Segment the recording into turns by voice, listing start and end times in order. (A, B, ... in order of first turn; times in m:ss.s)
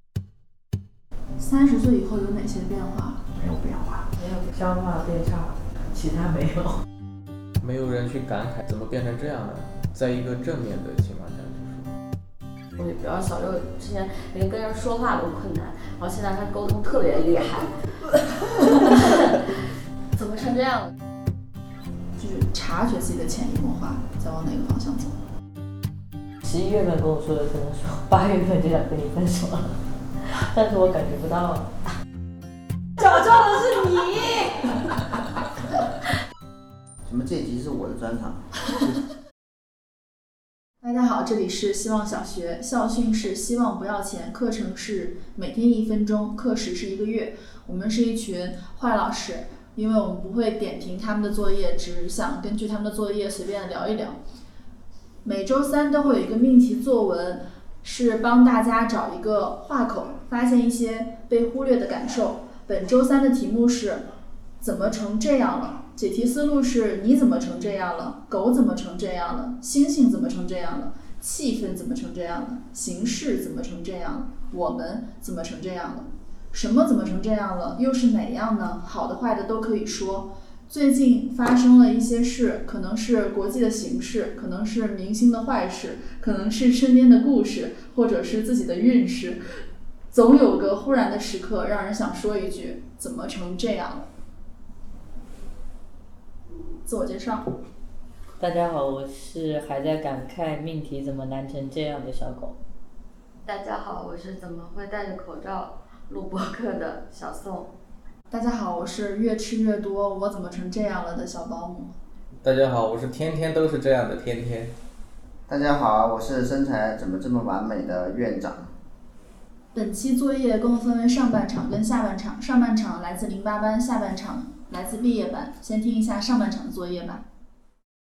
0:01.4-0:03.2 A
0:03.4-0:04.1 B
0:04.1-0:06.8 C
0:07.6-0:11.9 D
0:12.8-0:17.8 E
0:18.6-0:19.5 E
0:20.1-0:20.9 E
0:22.2-0:25.2 A
0:26.4-0:31.7 C
0:33.0-0:34.8 C
0:37.0-0:38.7 B
0:40.8-0:54.2 A
0:55.2-1:04.0 A
1:04.6-1:29.4 A
1:30.1-1:34.1 A
1:36.8-1:37.5 A
1:38.4-1:42.5 C
1:43.4-1:47.7 E
1:48.3-1:51.9 A
1:52.4-1:54.7 D
1:55.5-1:58.7 B
1:59.7-2:07.2 A